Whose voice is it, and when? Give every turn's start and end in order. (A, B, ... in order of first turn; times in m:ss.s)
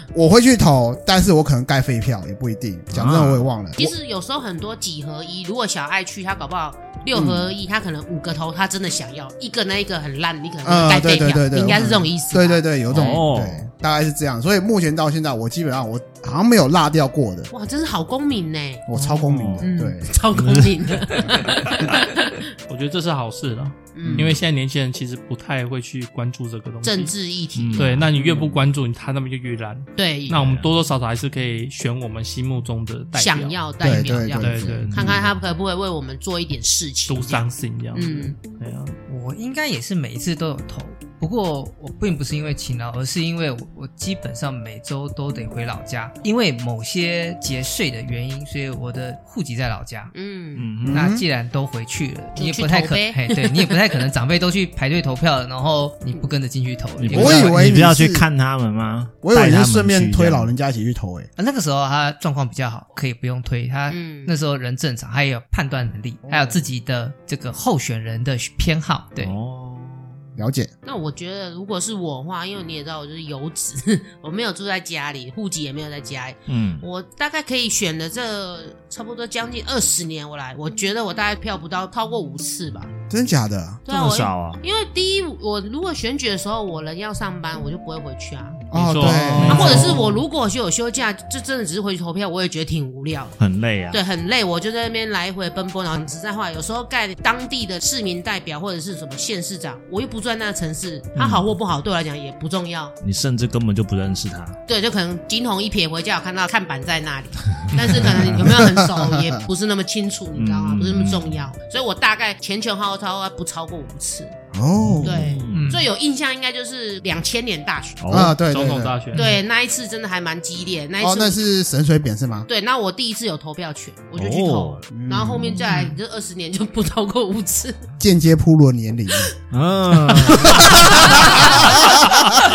0:00.1-0:03.9 A
0:02.9-0:03.4 B
0:03.8-0:13.0 C
0:07.1-0:07.5 A
0:10.6-0:17.5 A
0:12.9-0:13.6 B
0:17.5-0:18.8 C
0:18.9-0:20.2 A
0:19.1-0:19.7 B
0:19.6-0:22.5 C
0:20.3-0:21.4 B
0:22.7-0:27.1 D
0:23.9-0:24.4 C
0:24.0-0:24.4 A
0:26.8-0:28.0 C
0:27.6-0:28.1 B
0:27.8-0:33.6 D
0:30.0-0:30.6 C
0:33.2-0:38.4 C
0:33.8-0:35.3 A
0:34.4-0:34.9 D
0:34.7-0:35.2 B
0:37.1-0:38.9 D
0:39.1-0:50.1 E
0:50.1-0:50.7 C
0:50.6-0:51.1 B
0:50.8-0:51.2 A
0:50.9-0:57.8 E
0:52.4-0:53.8 C
0:57.0-1:00.5 B
0:57.1-0:58.2 A
0:59.2-1:01.3 A
1:01.4-1:09.3 E
1:03.9-1:04.3 C
1:06.3-1:06.5 A
1:09.2-1:10.2 B
1:10.4-1:10.7 A
1:10.8-1:22.9 C
1:16.5-1:16.8 B
1:23.1-1:23.8 A
1:23.9-1:28.6 C
1:23.9-1:24.6 B
1:28.7-1:30.0 A
1:28.7-1:30.0 D
1:29.3-1:30.1 B
1:29.5-1:33.4 C
1:33.4-1:34.0 B
1:33.9-1:43.0 C
1:41.2-1:41.5 B
1:43.0-1:44.6 B
1:44.7-1:54.4 C
1:47.7-1:48.3 B
1:48.4-1:49.4 A
1:50.3-1:51.4 B
1:54.5-1:55.4 A
1:54.8-1:55.7 B
1:55.0-1:58.0 C
1:55.5-1:55.9 E
1:58.0-1:58.4 B
1:58.1-1:59.0 A
1:58.5-1:59.3 D
1:59.1-1:59.4 E
1:59.1-2:01.4 C
2:01.0-2:02.5 A
2:02.5-2:07.8 C
2:04.2-2:04.9 B
2:04.9-2:05.6 A
2:05.6-2:05.9 E
2:08.0-2:09.3 A
2:09.5-2:11.7 B
2:10.2-2:12.3 A
2:10.3-2:12.1 C